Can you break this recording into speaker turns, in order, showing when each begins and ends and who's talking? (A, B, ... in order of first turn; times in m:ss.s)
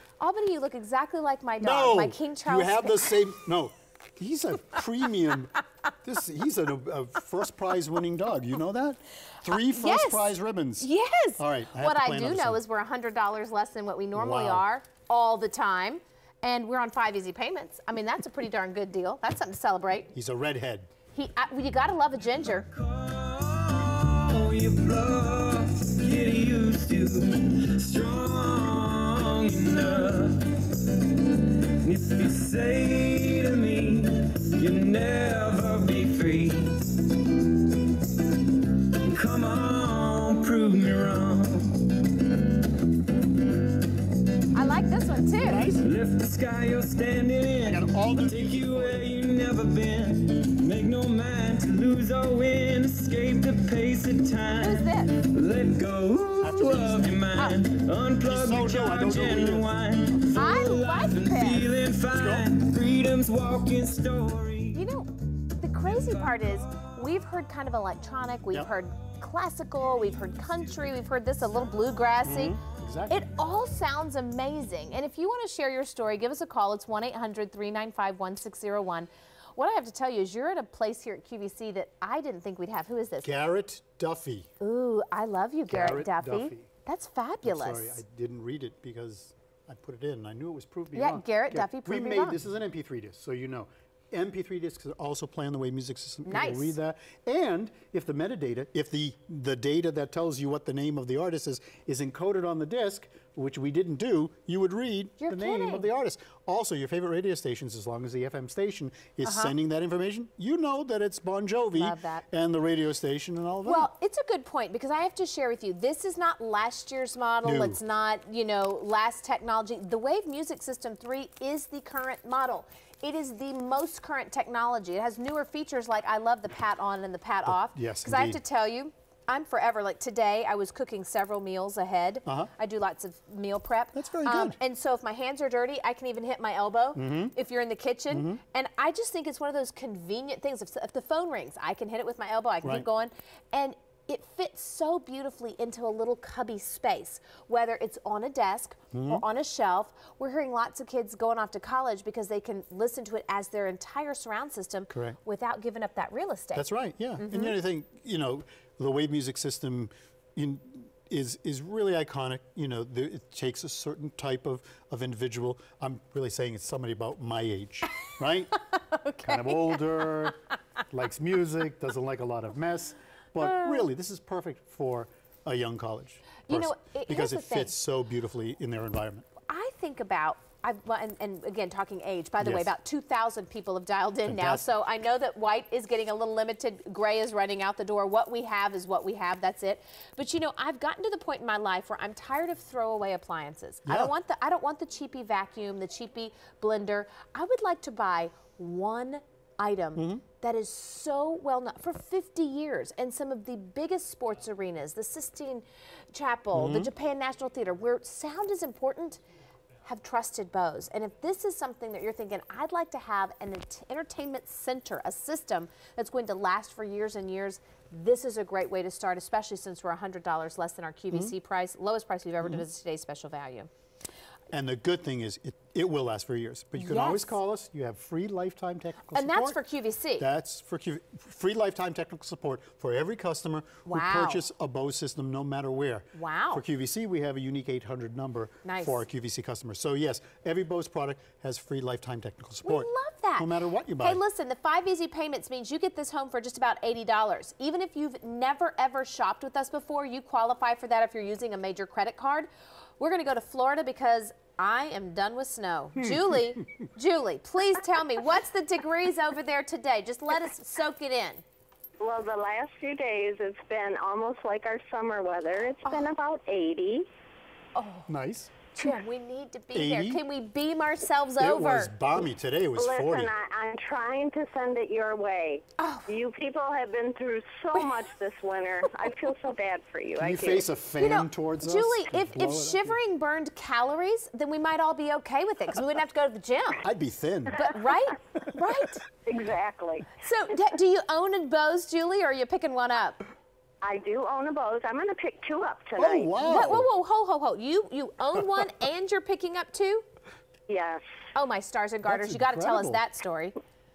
0:00.2-0:03.2 A
0:01.6-0:12.6 B
0:09.5-0:20.1 A
0:14.1-0:14.6 B
0:20.1-0:20.9 B
0:21.1-0:22.7 A
0:22.5-0:30.6 C
0:31.8-0:36.9 C
0:39.1-0:41.8 C
0:44.5-0:45.7 A
0:45.5-0:45.9 B
0:45.8-1:04.8 C
0:47.6-0:49.1 B
0:54.6-0:55.1 A
0:56.4-0:57.3 B
0:57.3-0:57.6 A
0:58.2-0:59.7 B
1:00.3-1:01.7 A
1:02.1-1:02.5 B
1:04.7-1:23.3 A
1:06.0-1:06.3 C
1:12.2-1:13.2 B
1:23.2-1:24.5 B
1:24.6-1:28.0 A
1:25.7-1:26.7 B
1:27.4-1:53.9 B
1:30.9-1:32.4 A
1:36.2-1:36.8 A
1:45.2-1:45.8 A
1:49.2-1:49.5 A
1:51.7-1:52.2 A
1:53.6-2:36.6 A
1:57.4-1:57.8 B
2:07.4-2:08.4 B
2:12.2-2:12.5 B
2:13.9-2:14.6 B
2:16.9-2:17.3 B
2:18.1-2:18.4 B
2:28.9-2:29.2 B
2:34.9-2:35.2 B
2:36.5-2:48.5 B
2:37.2-2:37.6 A
2:48.6-2:50.0 A
2:49.2-2:59.3 B
2:53.4-2:53.8 A
2:56.4-2:57.7 A
2:59.4-3:29.2 A
3:02.4-3:02.7 B
3:04.2-3:04.6 B
3:13.8-3:14.1 B
3:20.0-3:20.2 B
3:26.5-3:26.9 B
3:29.8-3:43.7 A
3:44.5-3:49.6 B
3:46.8-3:47.4 A
3:49.1-3:50.2 A
3:50.2-4:04.2 B
3:53.8-3:54.4 A
3:56.1-3:56.6 A
3:58.6-3:59.0 A
4:02.6-4:21.4 A
4:16.0-4:16.2 B
4:22.0-4:27.1 D
4:25.8-4:26.1 A
4:27.7-4:28.1 A
4:28.1-4:28.6 B
4:28.7-4:31.9 A
4:29.7-4:30.2 B
4:31.4-4:33.3 B
4:32.8-4:40.7 D
4:35.8-4:36.1 A
4:40.2-4:43.0 B
4:41.0-4:46.8 A
4:46.8-4:47.7 B
4:47.5-4:49.0 A
4:49.2-4:50.1 D
4:50.2-4:53.2 A
4:53.8-4:56.8 D
4:56.0-4:56.9 B
4:56.4-5:00.0 A
5:00.7-5:01.0 D
5:01.3-5:03.5 A
5:02.0-5:03.0 B